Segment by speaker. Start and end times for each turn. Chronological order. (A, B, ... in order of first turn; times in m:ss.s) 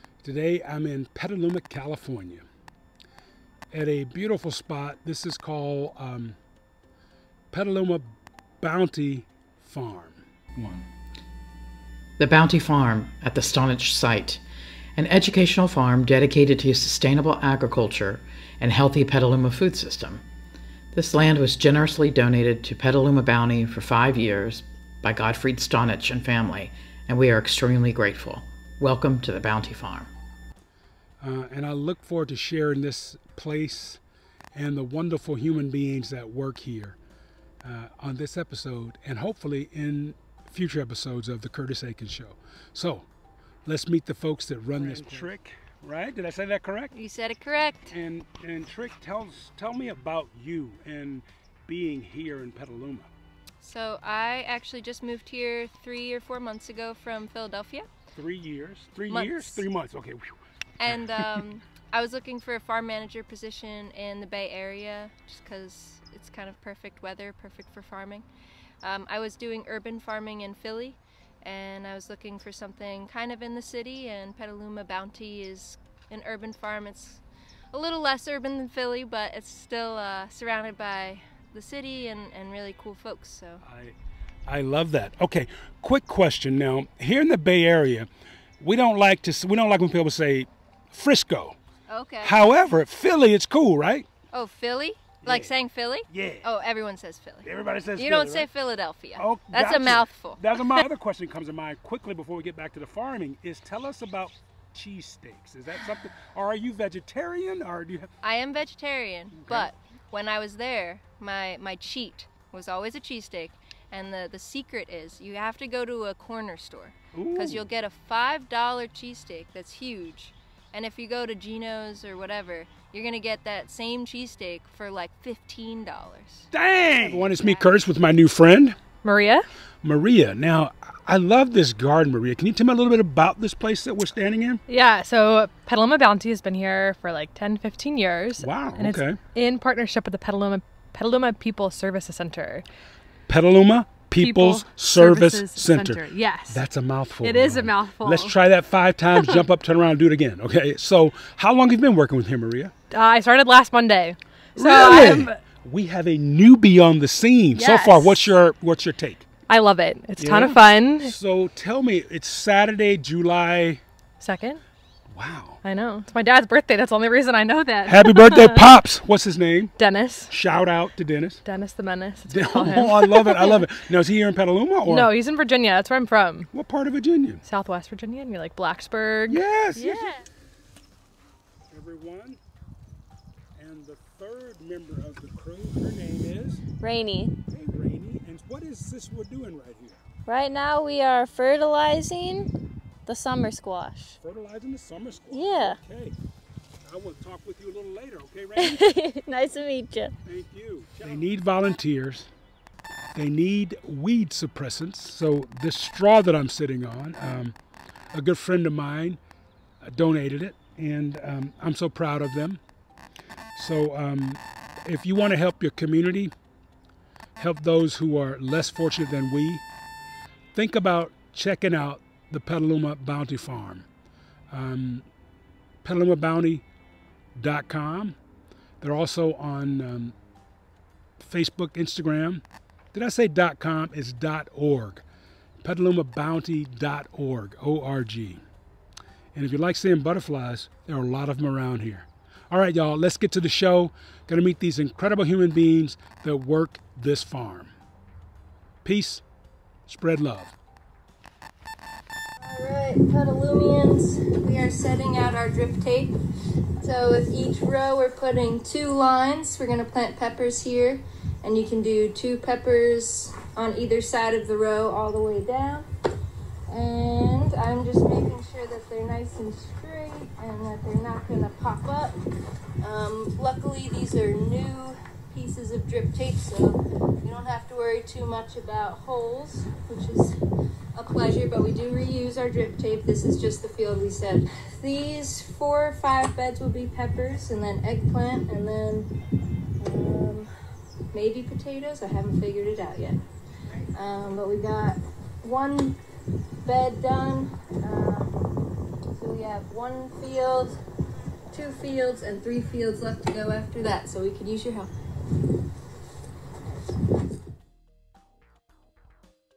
0:00.2-0:02.5 A
0:03.7-0:06.4 A
0:07.5-0:08.1 A
0:08.6-0:10.8 A
0:12.2-0:14.4 B
0:15.0-0:20.2 B
0:20.9-0:30.1 B
0:31.2-0:34.0 A
0:34.6-0:37.0 A
0:37.6-0:43.1 A
0:43.7-0:46.9 A
0:44.8-0:45.2 C
0:46.9-0:47.9 C
0:47.9-0:53.1 A
0:53.6-0:57.9 C
0:58.1-1:01.4 A
0:59.1-0:59.6 C
1:00.8-1:08.2 C
1:08.8-1:17.2 C
1:17.7-1:23.6 C
1:23.6-1:23.9 A
1:24.5-1:28.1 A
1:28.6-1:31.6 A
1:31.9-1:32.4 C
1:32.2-1:34.1 A
1:34.3-1:40.8 C
1:35.2-1:35.5 A
1:36.1-1:36.5 A
1:37.4-1:38.5 A
1:39.2-1:48.1 A
1:48.2-2:07.7 C
1:49.3-1:49.7 A
1:57.1-1:57.7 A
2:06.5-2:08.8 A
2:09.0-2:09.5 D
2:09.8-2:14.6 A
2:14.7-2:22.7 D
2:18.4-2:19.2 A
2:23.3-2:32.7 A
2:24.2-2:26.6 D
2:27.2-2:28.4 D
2:32.9-2:35.4 D
2:34.6-2:39.3 A
2:37.6-2:38.2 D
2:39.5-2:41.1 D
2:40.2-2:43.8 A
2:44.2-2:44.6 D
2:45.1-2:45.6 A
2:45.6-2:48.7 D
2:47.9-2:49.7 A
2:49.8-2:50.3 D
2:50.3-2:51.4 A
2:51.4-2:53.7 D
2:52.3-2:55.1 A
2:54.9-2:56.5 D
2:56.5-2:57.4 A
2:57.4-2:59.4 D
2:59.3-3:00.2 A
2:59.8-3:00.2 E
3:01.7-3:02.4 A
3:03.6-3:06.6 A
3:06.8-3:07.3 E
3:07.5-3:10.0 A
3:10.3-3:12.5 E
3:13.1-3:14.2 E
3:14.2-3:16.2 A
3:15.3-3:15.8 E
3:16.8-3:18.8 A
3:18.6-3:20.1 E
3:20.2-3:22.3 A
3:23.1-3:27.6 A
3:28.1-3:29.2 A
3:29.8-3:32.6 A
3:33.6-3:36.3 A
3:37.4-3:39.6 A
3:40.5-3:43.9 A
3:44.5-3:45.1 A
3:45.8-3:46.6 A
3:47.4-3:48.2 A
3:48.8-3:50.2 A
3:51.2-3:55.0 A
3:55.6-3:58.4 A
3:59.3-4:07.7 A
4:08.8-4:09.2 A
4:09.9-4:10.5 A
4:12.4-4:16.1 C
4:16.8-4:25.9 C
4:26.7-4:32.2 C
4:32.8-4:40.3 C
4:41.0-4:49.1 C
4:49.8-4:50.5 C
4:51.1-4:53.2 C
4:53.7-4:56.0 C
4:56.6-4:58.5 C
4:59.1-5:00.8 C
5:01.5-5:04.9 C